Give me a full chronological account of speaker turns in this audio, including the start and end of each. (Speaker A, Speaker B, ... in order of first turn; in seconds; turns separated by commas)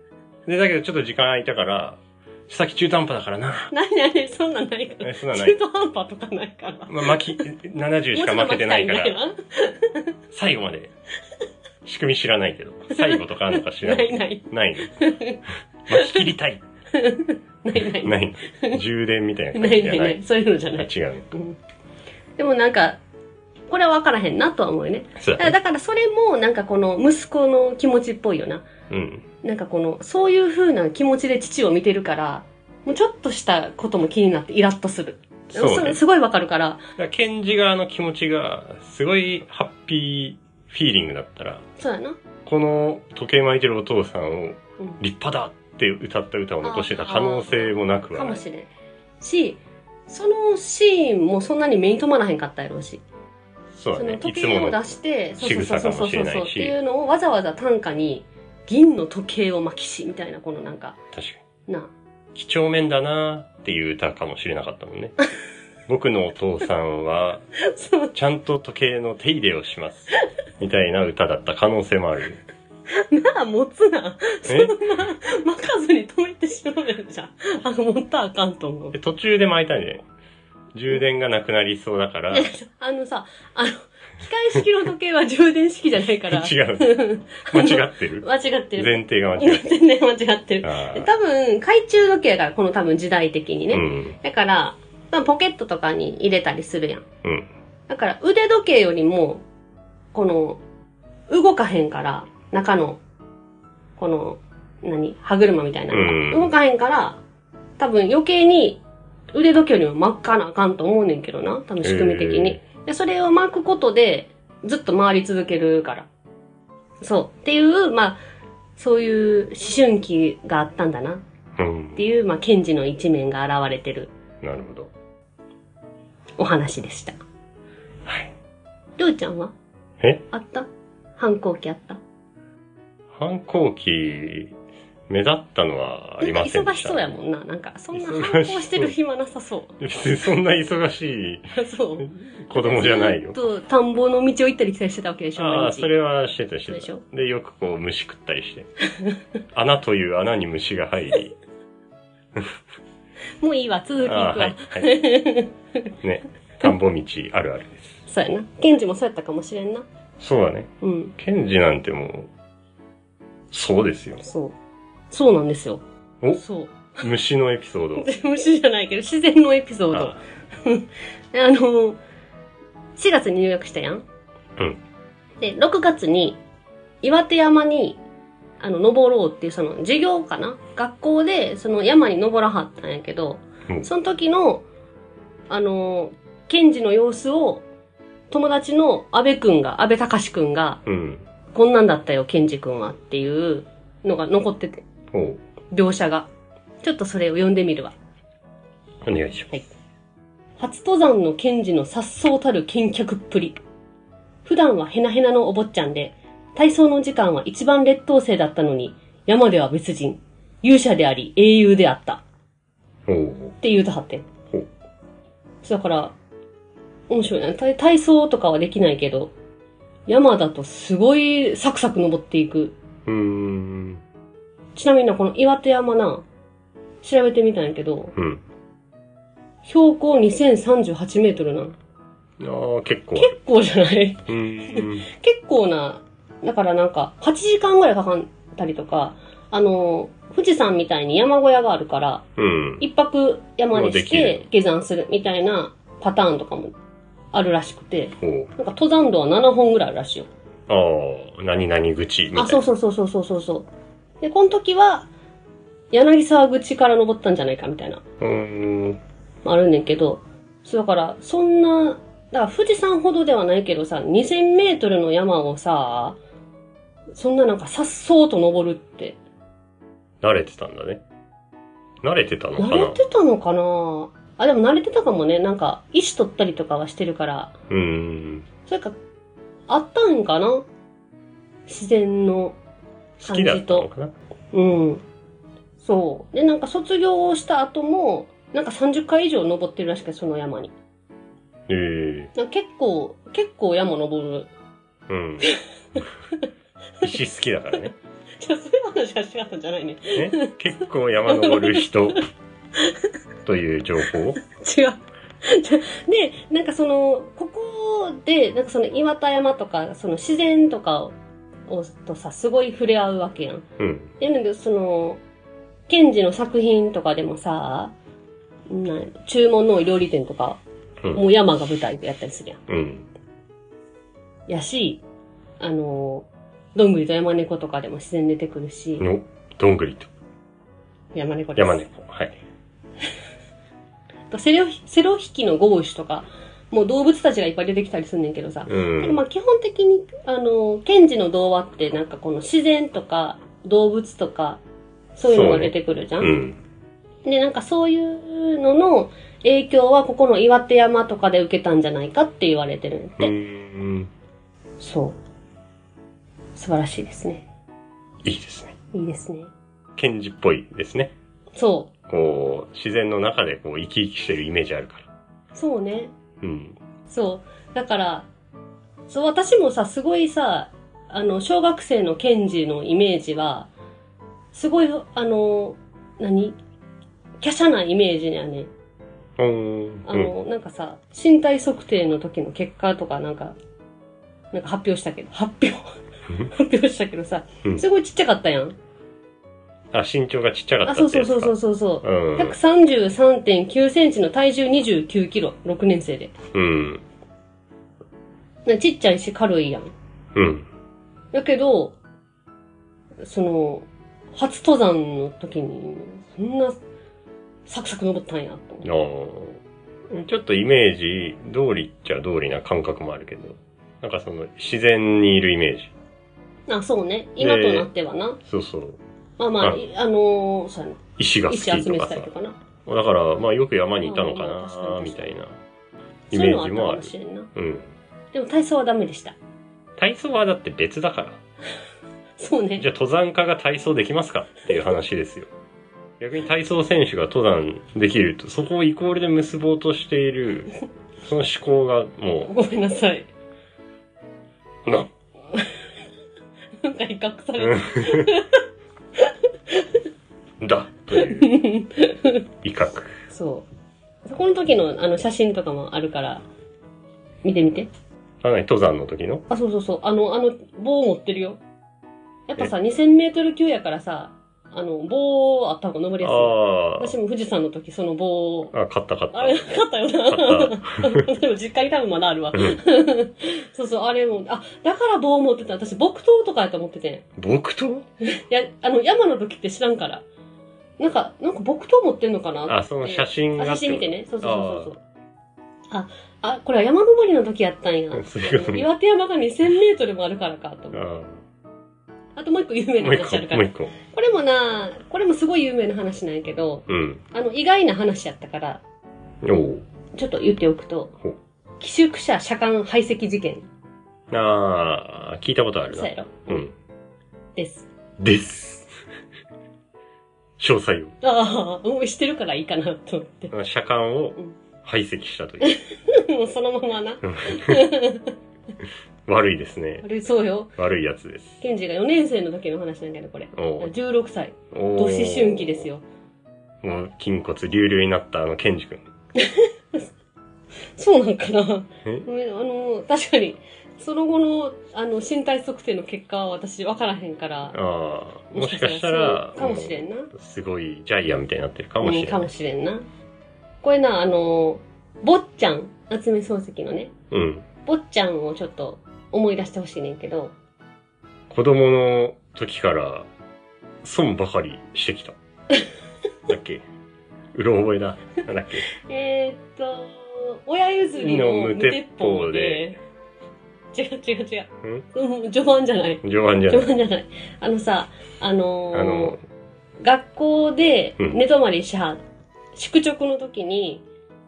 Speaker A: 0.5-3.7, Speaker B: 3.7-7.4, Speaker A: 5.0-5.6, Speaker A: 6.9-9.2, Speaker B: 8.1-10.1, Speaker A: 10.3-10.9, Speaker A: 11.8-14.9, Speaker B: 12.9-16.3, Speaker A: 15.9-16.6, Speaker B: 16.9-18.8, Speaker A: 17.8-20.2, Speaker B: 19.5-21.6, Speaker A: 20.8-21.3, Speaker B: 22.4-23.0, Speaker B: 23.7-28.7, Speaker A: 25.2-25.6, Speaker A: 28.9-29.3, Speaker B: 29.4-36.8, Speaker A: 35.5-36.0, Speaker A: 37.0-41.6, Speaker B: 41.8-42.2, Speaker A: 42.5-48.4, Speaker B: 46.6-48.7, Speaker B: 49.2-53.0, Speaker A: 53.7-56.8, Speaker B: 54.0-61.0, Speaker A: 61.1-61.4, Speaker A: 62.4-65.2, Speaker A: 65.9-67.4, Speaker B: 67.6-68.1, Speaker A: 68.1-72.4, Speaker B: 72.9-79.0, Speaker A: 74.5-74.8, Speaker A: 78.9-80.0, Speaker A: 80.7-82.5, Speaker B: 82.3-97.0, Speaker A: 86.2-89.7, Speaker A: 90.6-91.1, Speaker A: 93.7-94.2, Speaker A: 97.2-97.5, Speaker B: 97.9-99.4, Speaker B: 100.1-100.6, Speaker B: 101.3-103.0, Speaker B: 104.0-107.2, Speaker A: 105.9-106.5, Speaker B: 107.8-108.8, Speaker B: 109.3-116.1, Speaker A: 111.8-112.6, Speaker B: 117.0-118.2, Speaker B: 118.8-121.2, Speaker A: 121.6-122.0, Speaker B: 122.0-124.1, Speaker A: 124.4-124.9, Speaker B: 126.4-127.2, Speaker A: 128.1-128.3, Speaker B: 129.0-129.5, Speaker B: 130.3-130.7, Speaker B: 131.2-132.0, Speaker A: 133.1-134.6, Speaker A: 135.1-137.2, Speaker B: 136.2-139.8, Speaker A: 137.9-138.9, Speaker A: 139.8-143.4, Speaker B: 141.6-145.9, Speaker A: 145.4-148.7, Speaker B: 146.7-147.0, Speaker A: 149.5-151.3, Speaker B: 153.4-155.9, Speaker A: 154.0-154.9, Speaker A: 156.0-158.0, Speaker B: 158.1-159.9, Speaker A: 160.2-162.3, Speaker B: 160.8-161.1, Speaker A: 163.5-164.2, Speaker B: 164.2-164.6, Speaker B: 165.1-165.8, Speaker B: 166.3-167.1, Speaker A: 167.0-168.1, Speaker B: 168.0-172.0, Speaker A: 169.9-170.2, Speaker B: 173.0-174.0, Speaker B: 175.4-176.4, Speaker B: 177.0-178.0, Speaker B: 178.6-184.7, Speaker B: 185.5-187.6, Speaker B: 188.3-190.8, Speaker A: 190.9-191.2, Speaker B: 191.5-194.8, Speaker A: 195.1-195.4, Speaker B: 195.7-196.3, Speaker B: 196.8-197.9, Speaker A: 199.0-199.6, Speaker B: 200.6-203.6, Speaker B: 204.4-212.2, Speaker A: 213.1-213.6, Speaker B: 213.6-214.3, Speaker B: 215.6-216.1, Speaker B: 217.1-219.3, Speaker B: 220.1-222.7, Speaker A: 223.1-224.0, Speaker B: 224.8-226.2, Speaker B: 227.0-228.2, Speaker A: 228.2-228.4, Speaker B: 229.7-231.8, Speaker A: 232.4-233.4, Speaker B: 233.2-242.2, Speaker A: 234.3-235.1, Speaker A: 242.4-242.8, Speaker B: 242.8-246.7, Speaker A: 243.7-244.4, Speaker B: 247.3-250.3, Speaker A: 248.2-248.5, Speaker A: 250.7-252.6, Speaker B: 252.3-253.7, Speaker B: 254.2-255.1, Speaker B: 255.9-258.0, Speaker A: 258.2-259.0, Speaker B: 259.4-266.2, Speaker B: 267.1-269.2, Speaker A: 270.2-271.0, Speaker A: 272.0-273.0, Speaker B: 272.6-277.5, Speaker A: 277.7-278.5, Speaker B: 278.7-279.0, Speaker B: 279.7-280.7, Speaker B: 281.7-282.6, Speaker A: 283.2-284.1, Speaker B: 283.2-283.9, Speaker B: 284.5-285.0, Speaker B: 285.8-290.7, Speaker A: 291.7-292.3, Speaker B: 292.4-294.5, Speaker A: 295.1-296.0, Speaker A: 297.0-297.9, Speaker B: 298.4-300.6, Speaker A: 300.1-302.2, Speaker B: 301.3-302.2, Speaker B: 302.8-303.1, Speaker A: 303.4-304.4, Speaker B: 304.4-311.1, Speaker B: 311.7-313.7, Speaker A: 313.8-314.1, Speaker B: 314.2-315.2, Speaker B: 315.9-317.9, Speaker B: 318.7-320.6, Speaker B: 321.1-322.6, Speaker A: 322.7-323.1, Speaker B: 324.5-325.0, Speaker B: 325.6-329.1, Speaker A: 329.0-330.1, Speaker B: 331.1-331.9, Speaker A: 331.6-332.4, Speaker B: 334.3-344.6, Speaker A: 338.7-339.2, Speaker B: 345.1-346.4, Speaker A: 345.2-346.6, Speaker B: 347.2-353.3, Speaker A: 353.2-354.1, Speaker B: 354.8-355.2, Speaker B: 356.6-357.4, Speaker A: 358.2-358.8, Speaker B: 358.9-359.5, Speaker A: 360.0-361.1, Speaker B: 361.6-361.9, Speaker A: 362.1-365.1, Speaker B: 365.5-366.1, Speaker A: 366.4-366.8, Speaker B: 367.1-368.3, Speaker B: 369.1-373.7, Speaker B: 374.5-376.6, Speaker B: 377.4-378.7, Speaker A: 379.4-380.3, Speaker B: 380.1-383.6, Speaker B: 384.5-385.9, Speaker B: 386.4-388.8, Speaker A: 389.9-392.6, Speaker B: 390.9-396.4, Speaker A: 396.5-397.0, Speaker B: 398.7-399.9, Speaker A: 400.4-400.7, Speaker B: 401.3-401.9, Speaker B: 403.2-406.8, Speaker B: 407.7-408.9, Speaker A: 408.8-415.9, Speaker B: 416.7-418.4, Speaker A: 417.4-417.9, Speaker A: 418.4-419.0, Speaker B: 419.4-422.6, Speaker A: 421.2-422.3, Speaker A: 422.9-425.6, Speaker B: 424.0-425.4, Speaker B: 426.3-427.5, Speaker A: 426.3-427.9, Speaker B: 428.3-429.4, Speaker A: 430.0-431.4, Speaker B: 432.4-432.9, Speaker A: 432.8-435.5, Speaker A: 436.2-440.7, Speaker A: 441.2-442.5, Speaker B: 442.4-443.3, Speaker A: 444.9-445.1, Speaker B: 446.8-448.6, Speaker A: 447.6-448.3, Speaker B: 449.2-450.0, Speaker A: 450.6-451.6, Speaker B: 451.1-452.4, Speaker A: 452.6-453.1, Speaker B: 453.3-453.7, Speaker B: 454.2-456.4, Speaker B: 457.4-457.9, Speaker A: 458.4-459.4, Speaker B: 459.5-461.6, Speaker B: 462.5-468.7, Speaker A: 466.2-467.2, Speaker A: 468.7-471.2, Speaker B: 469.3-477.3, Speaker A: 477.4-478.1, Speaker B: 478.2-480.2, Speaker B: 481.0-485.0, Speaker A: 482.7-484.9, Speaker B: 485.9-491.0, Speaker A: 488.1-488.9, Speaker A: 490.9-491.4, Speaker B: 492.4-498.8, Speaker A: 493.0-493.9, Speaker A: 496.9-497.2, Speaker A: 499.4-499.8, Speaker B: 500.1-501.2, Speaker B: 501.8-503.7, Speaker A: 504.3-506.7, Speaker B: 505.9-506.6, Speaker B: 507.6-507.9, Speaker A: 508.2-508.9, Speaker A: 510.6-511.1, Speaker B: 511.2-513.5, Speaker A: 513.5-515.8, Speaker B: 515.6-518.4, Speaker A: 517.2-517.9, Speaker A: 519.3-520.0, Speaker B: 520.0-520.7, Speaker A: 520.8-521.6, Speaker B: 521.6-526.0, Speaker A: 523.5-523.9, Speaker A: 524.7-525.9, Speaker A: 526.8-529.0, Speaker B: 529.4-530.0, Speaker B: 531.0-537.8, Speaker A: 537.7-542.5, Speaker B: 538.5-540.3, Speaker B: 542.0-543.0, Speaker B: 543.8-547.1, Speaker A: 547.3-547.7, Speaker B: 547.9-550.5, Speaker A: 551.5-553.3, Speaker A: 554.0-555.4, Speaker A: 556.5-556.8, Speaker A: 557.5-558.9, Speaker B: 558.9-563.0, Speaker A: 561.2-562.9, Speaker B: 563.9-569.4, Speaker A: 566.2-566.9, Speaker A: 568.9-569.4, Speaker B: 570.0-572.2, Speaker B: 572.8-574.0